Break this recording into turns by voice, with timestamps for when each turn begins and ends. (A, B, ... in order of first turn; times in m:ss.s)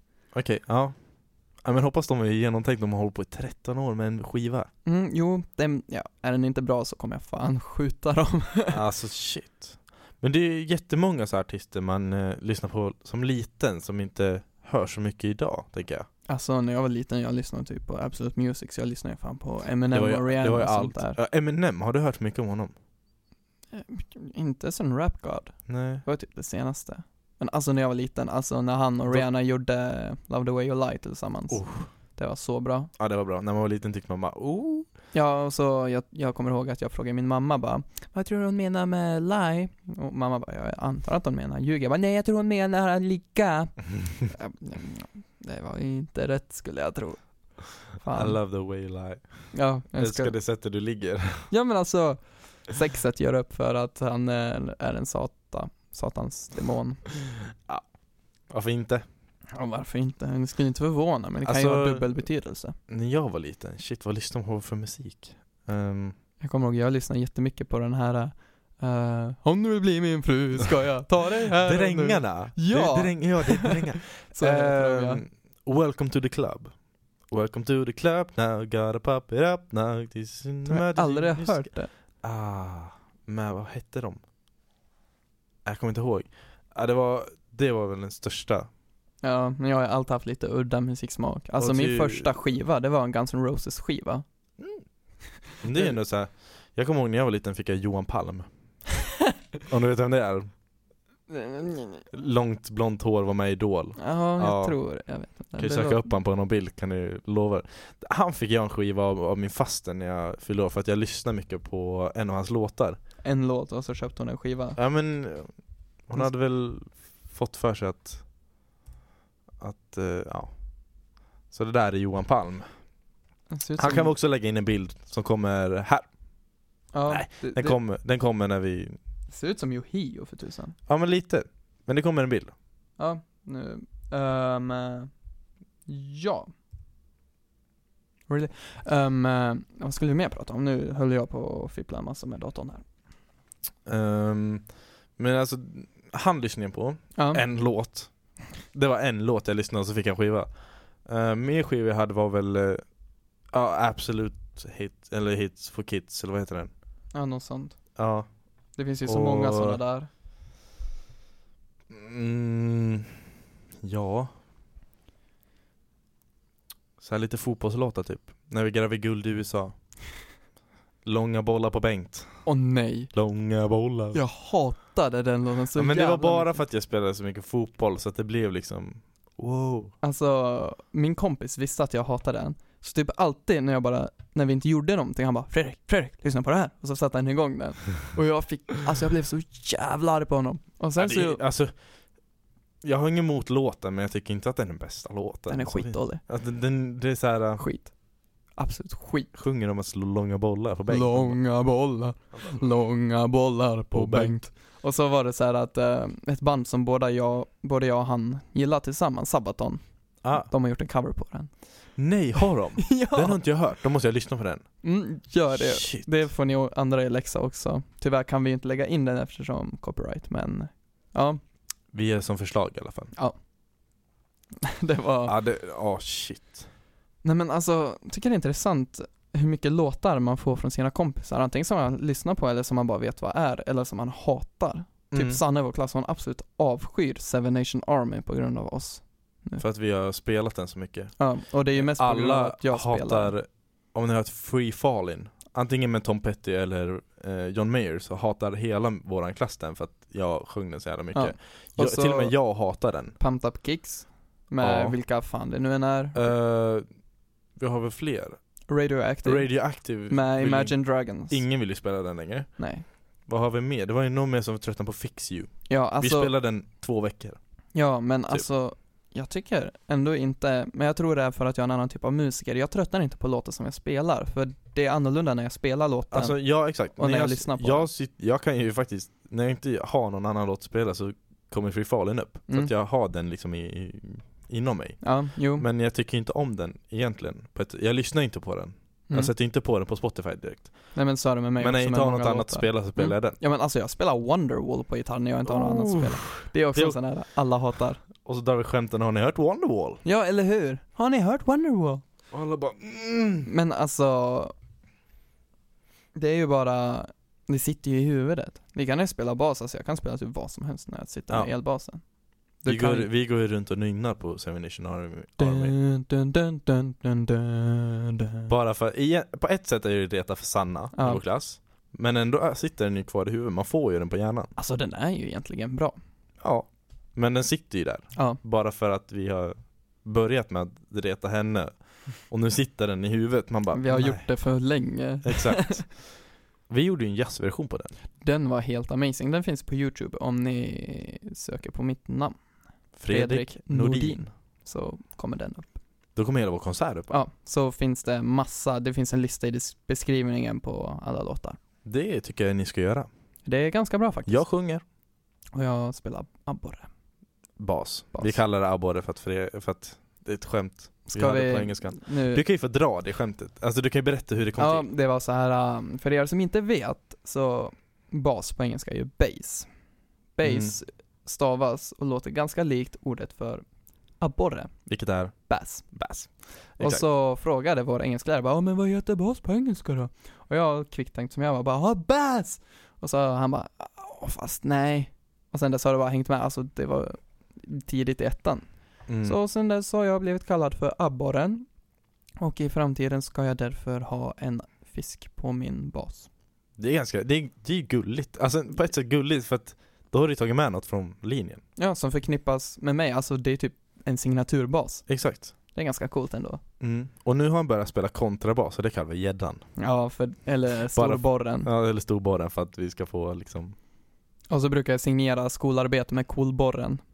0:00.3-0:00.9 A
0:01.6-0:04.7 A
0:04.8-0:08.8 B
0:08.7-0:16.1 A
0:16.3-0:21.2 B
0:19.9-0:22.7 A
0:23.7-0:32.9 B
0:25.7-0:26.0 A
0:31.5-0:31.9 A
0:33.0-0:34.9 A
0:35.1-0:47.2 B
0:47.8-0:48.4 B
0:48.1-0:51.5 A
0:49.5-0:50.3 B
0:51.5-0:57.0 B
0:57.5-0:57.8 A
0:58.5-0:59.0 A
0:59.5-1:02.8 B
1:01.4-1:02.2 A
1:02.9-1:06.1 A
1:06.4-1:15.2 B
1:11.5-1:16.7 A
1:17.3-1:21.7 A
1:20.7-1:21.9 B
1:22.2-1:24.2 A
1:25.6-1:28.7 A
1:29.2-1:34.2 B
1:31.6-1:32.3 A
1:35.6-1:38.5 A
1:39.7-1:40.5 A
1:41.3-1:42.0 B
1:42.1-1:44.8 A
1:44.0-1:46.1 B
1:45.6-1:53.0 A
1:53.2-1:54.8 B
1:54.8-1:55.5 A
1:56.1-1:58.2 A
1:59.6-2:00.5 A
2:01.5-2:02.7 A
2:03.5-2:04.1 B
2:03.8-2:06.1 A
2:06.9-2:07.8 B
2:07.1-2:09.0 A
2:09.3-2:10.8 B
2:10.9-2:12.5 A
2:13.0-2:15.1 B
2:15.9-2:16.5 B
2:18.3-2:22.8 B
2:23.8-2:28.1 A
2:27.2-2:27.4 B
2:28.6-2:30.5 A
2:31.0-2:32.8 A
2:33.5-2:36.7 A
2:37.1-2:37.8 B
2:38.0-2:38.3 A
2:38.8-2:40.1 B
2:39.0-2:39.8 A
2:41.9-2:43.2 A
2:43.8-2:44.3 A
2:47.0-2:49.7 A
2:51.0-2:52.4 A
2:52.4-2:53.1 B
2:53.1-2:54.2 A
2:54.1-2:56.6 B
2:55.7-2:59.9 A
3:00.0-3:11.4 B
3:11.0-3:11.7 A
3:12.8-3:17.6 A
3:15.5-3:16.2 B
3:17.6-3:17.9 B
3:18.6-3:19.3 B
3:19.3-3:21.4 A
3:20.9-3:31.5 B
3:23.9-3:24.4 A
3:30.2-3:30.5 A
3:32.0-3:34.6 A
3:32.8-3:33.4 B
3:34.8-3:41.4 B
3:35.5-3:36.2 A
3:41.9-3:43.1 A
3:44.6-3:45.3 B
3:45.2-3:46.7 A
3:47.2-3:59.6 B
3:55.1-3:55.4 A
3:59.6-4:01.1 A
4:01.2-4:03.3 B
4:01.7-4:13.2 A
4:11.1-4:12.3 B
4:13.2-4:16.3 B
4:14.6-4:15.0 A
4:16.1-4:16.8 A
4:17.6-4:18.4 A
4:18.7-4:19.5 B
4:19.2-4:20.7 A
4:20.1-4:21.4 B
4:21.3-4:22.5 A
4:22.6-4:22.8 B
4:23.3-4:27.4 A
4:25.7-4:26.3 B
4:27.7-4:36.4 B
4:36.1-4:50.7 A
4:36.9-4:37.9 B
4:45.0-4:45.6 B
4:50.9-4:58.0 B
4:51.6-4:53.4 A
4:55.4-4:57.0 A
4:58.2-5:00.0 A
5:00.0-5:02.0 B
5:02.3-5:03.5 A
5:03.4-5:04.5 B
5:06.1-5:12.0 B
5:12.6-5:13.1 B
5:12.6-5:15.7 A
5:15.4-5:18.5 B
5:18.5-5:24.5 A
5:20.9-5:21.2 B
5:24.6-5:25.9 B
5:26.4-5:34.3 A
5:33.7-5:35.8 B
5:35.2-5:36.0 A
5:36.7-5:37.9 A
5:38.2-5:42.3 B
5:43.0-5:44.3 A
5:43.1-5:45.7 B
5:46.2-5:47.1 A
5:47.1-5:51.6 B
5:51.8-5:53.1 A
5:53.4-5:54.4 B
5:54.3-5:54.8 A
5:55.5-5:56.9 B
5:57.6-6:04.9 A
6:01.0-6:02.4 B
6:04.6-6:09.7 B
6:10.4-6:13.6 B
6:10.4-6:10.7 A
6:14.2-6:14.7 B
6:14.9-6:15.3 A
6:15.5-6:15.9 B
6:15.9-6:17.0 A
6:16.8-6:28.6 B
6:29.1-6:29.4 A
6:29.2-6:31.6 B
6:32.4-6:36.3 B
6:36.8-6:41.6 A
6:41.8-6:45.0 B
6:45.1-6:45.5 A
6:45.7-6:46.6 B
6:46.8-6:49.6 A
6:49.8-6:51.7 B
6:50.9-6:53.7 A
6:54.5-6:57.0 B